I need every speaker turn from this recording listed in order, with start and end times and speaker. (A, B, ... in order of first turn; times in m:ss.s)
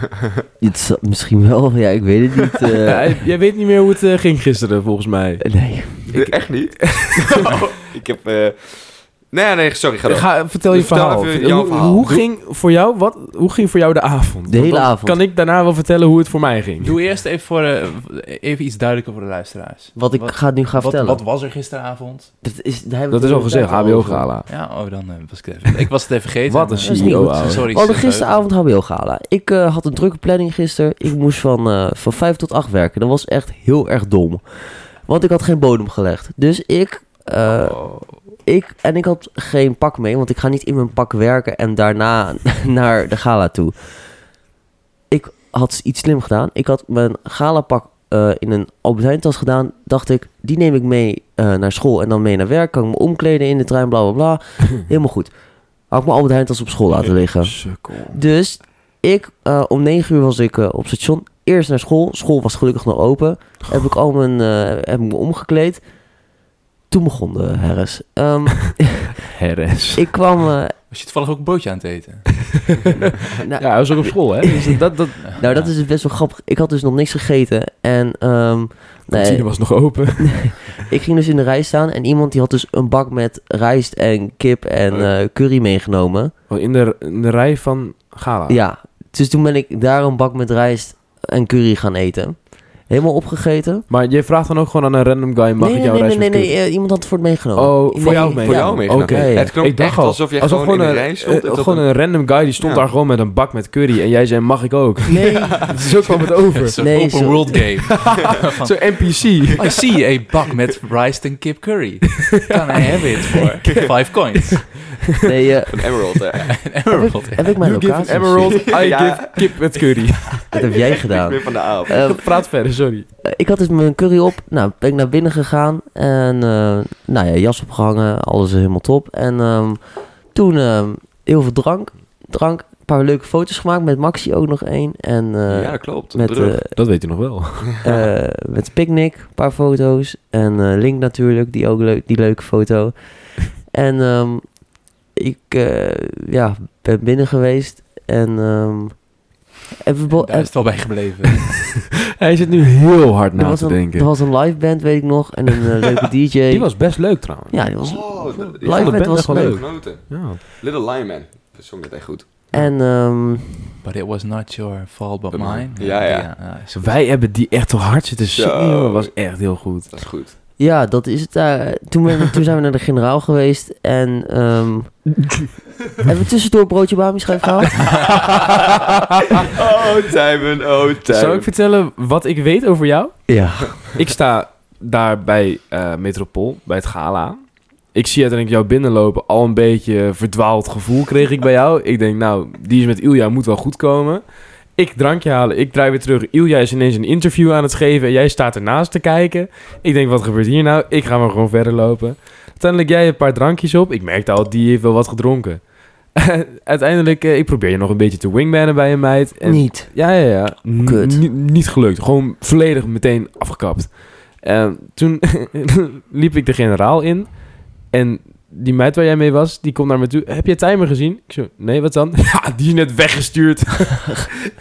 0:00.6-0:03.2 A
0:02.8-0:07.3 B
0:05.4-0:06.1 A
0:06.1-0:12.2 C
0:10.0-0:16.9 B
0:14.5-0:15.2 A
0:16.8-0:22.3 D
0:20.0-0:21.2 A
0:22.4-0:24.3 A
0:23.1-0:24.5 B
0:24.5-0:28.4 D
0:26.5-0:27.7 B
0:26.8-0:44.0 A
0:45.1-0:55.3 A
0:55.8-1:05.8 A
0:57.4-0:58.2 B
1:06.9-1:09.2 A
1:09.3-1:10.1 B
1:10.0-1:10.7 A
1:10.9-1:12.4 D
1:13.4-1:26.3 A
1:13.6-1:15.3 B
1:15.3-1:15.7 D
1:19.1-1:20.6 B
1:26.5-1:28.6 B
1:28.5-1:33.8 A
1:33.9-1:36.5 B
1:35.6-1:39.5 A
1:37.5-1:46.8 B
1:38.2-1:41.9 C
1:42.6-1:42.8 C
1:45.1-1:46.0 A
1:45.2-1:46.0 C
1:46.5-1:54.9 D
1:46.8-1:47.7 A
1:48.3-1:49.8 B
1:52.4-1:53.9 B
1:55.2-1:55.9 A
1:55.7-1:56.6 C
1:56.5-1:57.6 D
1:56.9-1:58.7 A
1:57.6-2:00.4 B
1:58.4-1:59.6 C
2:00.5-2:02.0 C
2:00.5-2:02.3 A
2:01.9-2:03.1 B
2:03.2-2:16.8 A
2:15.5-2:16.6 C
2:16.7-2:17.7 B
2:17.8-2:29.1 A
2:29.8-2:31.0 A
2:30.1-2:31.7 D
2:32.2-2:34.1 B
2:33.3-2:37.0 A
2:36.5-2:37.6 B
2:37.5-2:39.8 A
2:37.8-2:42.4 C
2:38.5-2:40.4 B
2:42.5-2:43.7 A
2:43.8-2:47.0 D
2:45.3-2:46.3 C
2:46.7-2:49.9 B
2:48.3-2:49.1 C
2:49.9-2:50.3 C
2:50.6-2:55.4 A
2:56.0-2:58.3 A
2:59.4-3:01.5 C
3:01.1-3:03.3 B
3:03.3-3:03.8 A
3:03.9-3:14.2 B
3:14.8-3:25.6 B
3:26.2-3:44.3 B
3:29.4-3:30.2 A
3:30.7-3:31.2 A